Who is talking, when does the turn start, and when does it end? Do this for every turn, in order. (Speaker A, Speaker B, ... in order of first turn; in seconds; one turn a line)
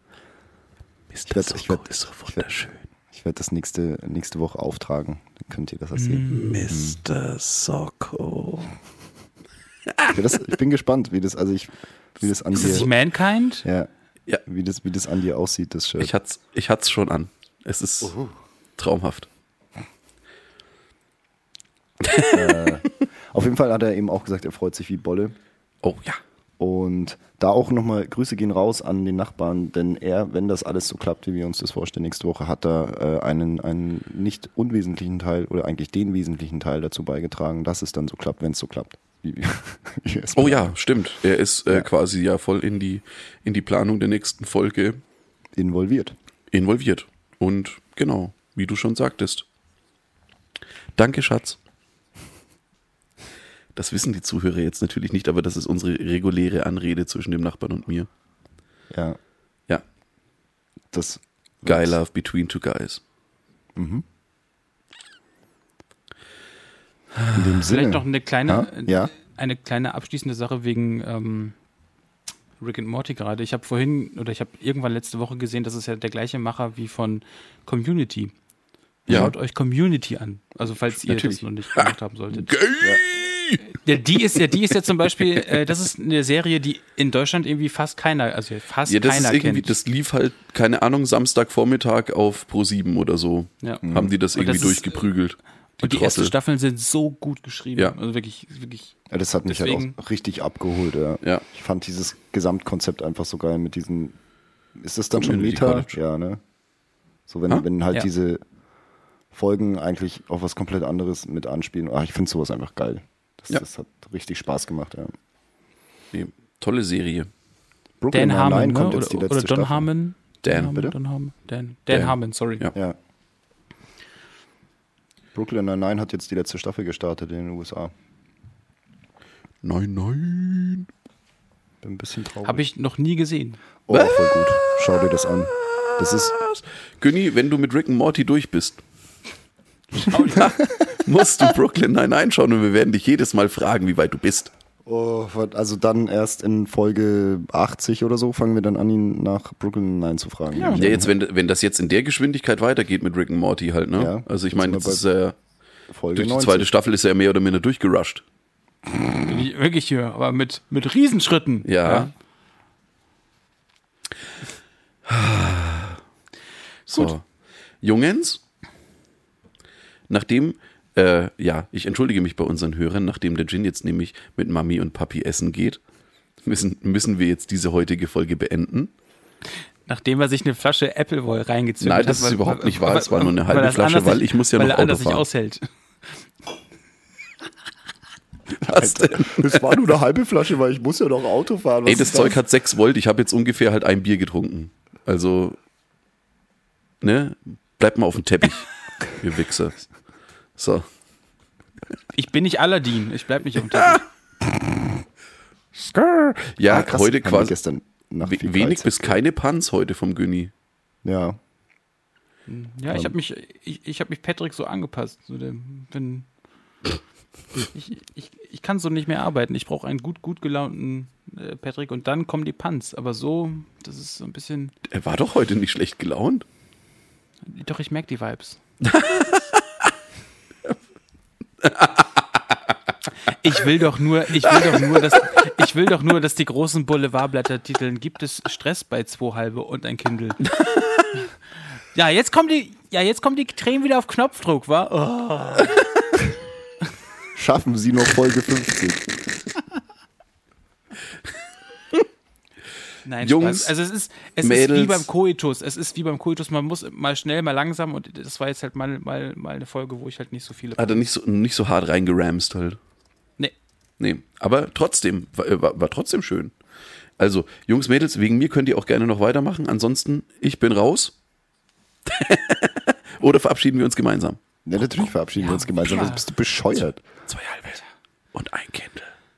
Speaker A: 1.1-2.8
Speaker B: 1.3-2.5
Speaker B: 3.1-7.0
Speaker C: 6.0-6.7
Speaker A: 6.3-8.7
Speaker A: 9.9-10.2
Speaker B: 10.1-12.9
Speaker A: 12.5-12.9
Speaker C: 12.5-13.7
Speaker B: 13.6-13.9
Speaker B: 14.5-16.1
Speaker A: 16.0-18.2
Speaker A: 18.8-19.3
Speaker A: 22.0-22.9
Speaker B: 22.3-25.4
Speaker A: 25.8-26.2
Speaker B: 26.6-40.7
Speaker A: 40.4-45.0
Speaker B: 45.6-46.2
Speaker A: 46.5-49.5
Speaker A: 51.0-51.6
Speaker A: 53.8-58.1
Speaker B: 58.9-59.2
Speaker B: 60.9-62.0
Speaker A: 61.6-63.0
Speaker B: 63.8-64.0
Speaker A: 67.2-67.5
Speaker B: 67.3-69.1
Speaker C: 67.6-71.6
Speaker C: 72.6-78.3
Speaker C: 79.1-82.5
Speaker A: 79.1-79.3
Speaker A: 80.9-83.8
Speaker C: 83.7-89.7
Speaker A: 88.9-96.3
Speaker B: 93.8-94.1
Speaker C: 94.3-95.0
Speaker C: 95.8-100.0
Speaker B: 99.1-104.2
Speaker B: 104.8-106.4
Speaker A: 105.1-106.0
Speaker B: 107.3-108.4
Speaker B: 109.3-115.1
Speaker A: 116.1-117.3
Speaker B: 118.0-119.9
Speaker C: 118.1-122.6
Speaker A: 120.5-120.8
Speaker A: 121.9-122.7
Speaker B: 125.3-127.9
Speaker A: 129.6-130.9
Speaker B: 131.8-132.6
Speaker C: 132.4-133.6
Speaker B: 133.9-136.3
Speaker A: 133.9-138.8
Speaker C: 140.1-140.6
Speaker A: 140.4-144.5
Speaker B: 144.8-151.1
Speaker C: 150.5-150.8
Speaker A: 150.7-155.4
Speaker B: 153.9-155.0
Speaker B: 155.9-156.7
Speaker A: 156.1-158.2
Speaker C: 159.2-162.1
Speaker A: 161.7-162.1
Speaker A: 165.1-166.0
Speaker A: 166.9-167.3
Speaker A: 167.8-168.4
Speaker A: 170.1-175.8
Speaker A: 176.4-178.9
Speaker C: 179.9-186.3
Speaker A: 181.8-185.2
Speaker B: 188.6-192.4
Speaker A: 188.7-189.8
Speaker A: 191.8-195.6
Speaker A: 197.0-199.8
Speaker A: 200.6-200.9
Speaker C: 202.1-204.1
Speaker A: 203.7-204.0
Speaker A: 205.8-207.5
Speaker B: 206.7-209.2
Speaker A: 208.2-210.5
Speaker B: 211.1-211.4
Speaker C: 212.5-216.3
Speaker B: 212.9-213.2
Speaker C: 217.7-224.7
Speaker A: 224.9-226.5
Speaker C: 227.5-228.6
Speaker A: 228.8-229.8
Speaker A: 231.6-232.6
Speaker C: 233.3-240.6
Speaker A: 234.4-235.5
Speaker A: 240.6-241.1
Speaker C: 241.9-246.2
Speaker B: 247.3-249.1
Speaker C: 253.0-261.1
Speaker A: 253.2-253.7
Speaker A: 254.4-255.1
Speaker A: 260.8-262.8
Speaker A: 264.0-266.5
Speaker A: 267.2-271.1
Speaker A: 272.1-274.4
Speaker B: 274.6-277.0
Speaker C: 275.4-276.2
Speaker A: 277.3-277.8
Speaker A: 278.3-279.1